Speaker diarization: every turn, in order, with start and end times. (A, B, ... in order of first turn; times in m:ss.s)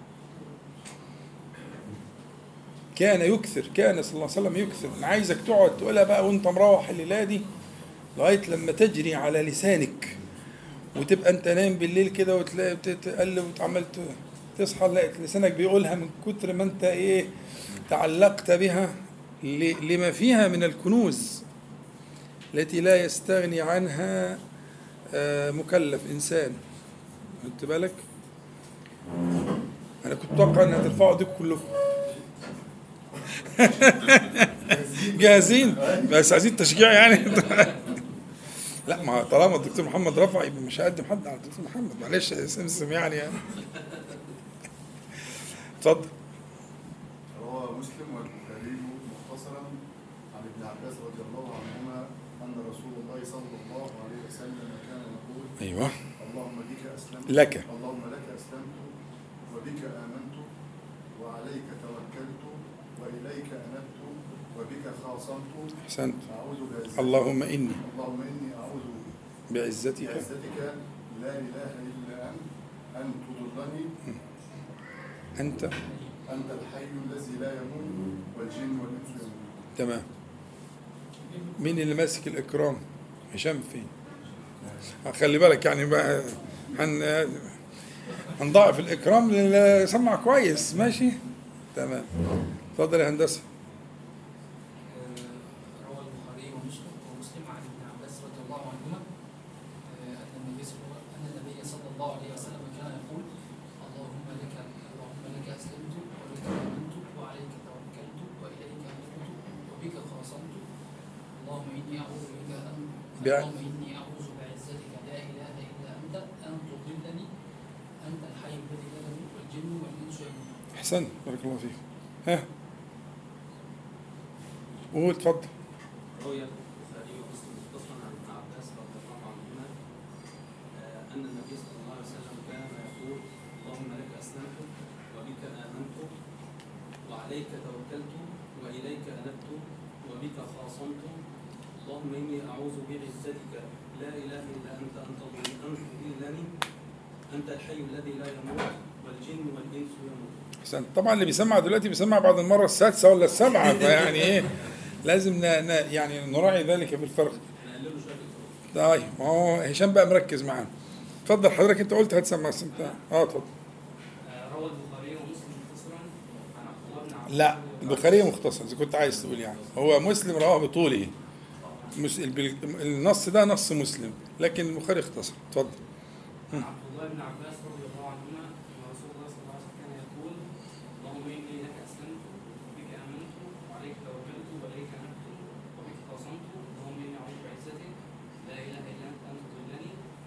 0:02.9-0:07.4 A
0:08.2-0:10.2 A
0:10.9-0:17.3 A
0:17.9-0:21.4 A
0:22.5-0:24.4 A
0:25.1-0:26.6 A
0:27.4-0:28.0 A
0:30.0-0:31.7 A
0:33.4-0:37.9 A
0:34.6-0:36.3 B
0:38.8-0:43.5 A
0:45.8-0:46.1 A
0:47.3-0:49.8 B
0:50.3-0:55.6 B
0:55.6-0:55.9 A
0:56.2-0:58.9 B
0:57.3-0:57.6 A
0:59.5-1:00.5 B
1:01.1-1:05.7 B
1:05.8-1:06.2 A
1:06.3-1:07.2 B
1:07.0-1:07.8 A
1:07.8-1:09.1 B
1:09.5-1:10.3 A
1:10.0-1:14.0 B
1:15.4-1:15.7 A
1:16.3-1:19.5 B
1:19.8-1:20.0 A
1:21.6-1:22.8 A
1:23.3-1:23.9 A
1:25.0-1:27.6 A
1:28.4-1:31.2 A
1:31.7-1:32.1 A
1:32.7-1:33.4 A
1:34.9-1:39.0 C
1:39.9-1:43.3 C
1:43.8-1:50.6 C
1:51.4-1:57.3 C
1:53.2-1:53.5 A
1:58.0-2:00.6 C
2:00.7-2:02.4 A
2:04.9-2:05.5 A
2:06.1-2:09.7 D
2:10.7-2:16.1 D
2:17.1-2:21.2 D
2:21.8-2:26.5 D
2:27.3-2:30.4 D
2:30.6-2:37.4 A
2:33.9-2:34.5 D
2:37.5-2:38.5 D
2:38.7-2:40.7 A
2:41.2-2:43.5 A
2:44.2-2:48.3 D
2:47.3-2:51.1 A
2:51.6-2:51.9 D
2:51.9-2:55.8 A
2:56.5-3:00.4 D
3:01.0-3:10.0 D